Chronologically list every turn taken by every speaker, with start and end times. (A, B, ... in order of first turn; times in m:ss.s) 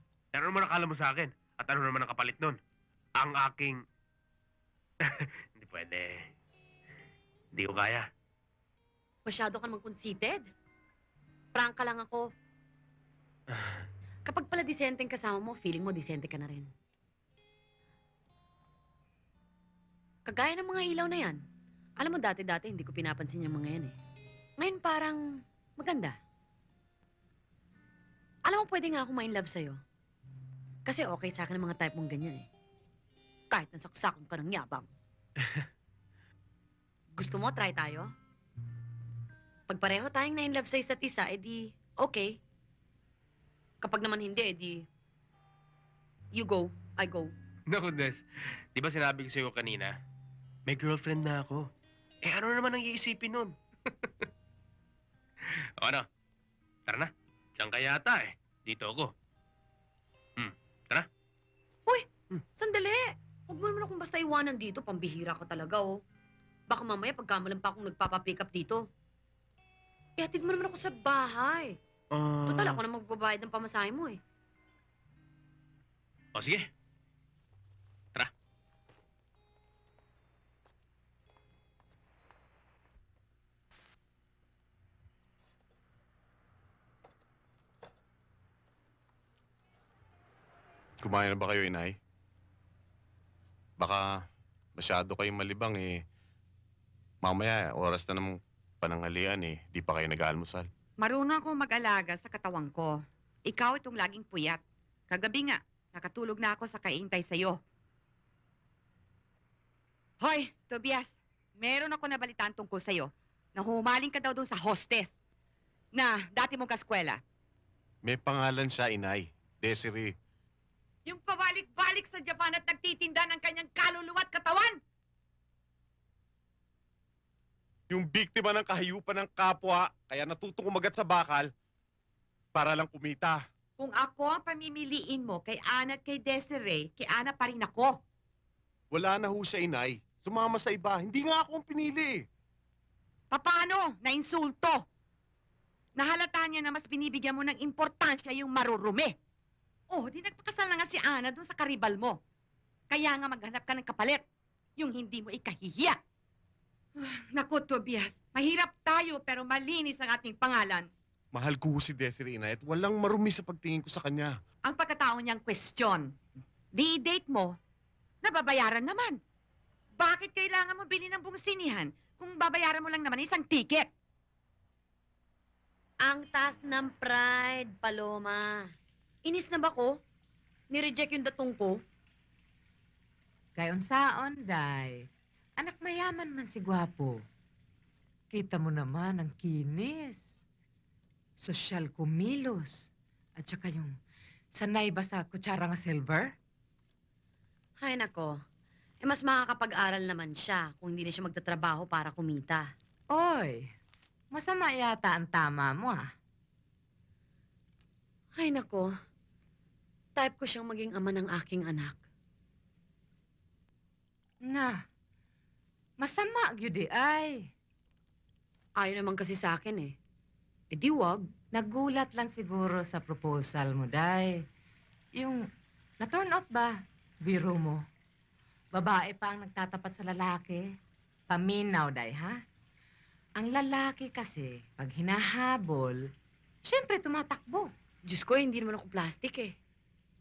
0:00.3-0:02.6 A
0:03.2-0:03.8 A
0:05.0-0:06.3 A
0:07.5-0:08.1 A
0:09.2-0:10.4 B
0:11.5-0:12.3 B
0:13.5-0:13.8 A
0:14.2-0:16.7 B
0:20.2-0:21.4 B
0:22.0-0:24.0 B
0:24.6-0:26.2 B
0:28.4-0:29.8 B
0:30.8-0:32.5 B
0:33.5-0:34.9 B
0:37.1-0:38.1 B
0:39.7-0:42.4 B
0:43.8-0:44.8 B
0:46.3-0:47.3 B
0:47.7-0:48.2 A
0:48.7-0:49.9 A
0:50.7-0:51.6 A
0:52.2-0:54.1 A
0:55.8-0:56.0 A
0:56.9-0:59.1 A
1:00.4-1:01.1 A
1:01.9-1:06.0 B
1:06.7-1:08.9 B
1:10.2-1:11.8 B
1:12.1-1:12.8 A
1:12.5-1:14.2 B
1:16.3-1:16.7 A
1:31.0-1:32.0 C
1:33.8-1:34.0 C
1:34.8-1:36.0 C
1:37.2-1:40.7 C
1:41.0-1:47.6 D
1:50.2-1:55.2 D
1:55.9-1:57.2 D
1:58.0-2:00.1 C
2:01.0-2:04.8 D
2:07.9-2:11.5 C
2:12.5-2:13.4 C
2:13.8-2:18.0 D
2:18.9-2:22.2 C
2:23.3-2:24.8 D
2:26.0-2:29.2 D
2:29.9-2:32.2 D
2:32.9-2:34.2 D
2:34.8-2:36.0 D
2:37.0-2:40.9 D
2:41.3-2:44.3 C
2:44.6-2:46.1 D
2:46.7-2:47.6 D
2:48.2-2:49.2 D
2:49.9-2:53.9 D
2:56.0-2:58.7 B
2:59.2-3:00.0 B
3:00.7-3:01.8 B
3:03.6-3:07.2 E
3:08.3-3:10.4 E
3:11.4-3:13.9 E
3:14.5-3:16.3 E
3:17.8-3:18.4 B
3:19.0-3:22.7 B
3:23.1-3:23.7 E
3:24.3-3:26.1 E
3:28.3-3:28.9 B
3:30.2-3:32.0 B
3:34.4-3:34.8 E
3:36.0-3:37.5 E
3:38.8-3:40.0 B
3:40.7-3:41.3 B
3:41.5-3:44.4 E
3:45.1-3:45.4 E
3:46.0-3:47.8 E
3:48.7-3:50.6 E
3:51.3-3:52.4 E
3:53.4-3:56.1 E
3:56.6-3:57.7 E
3:58.1-3:59.5 B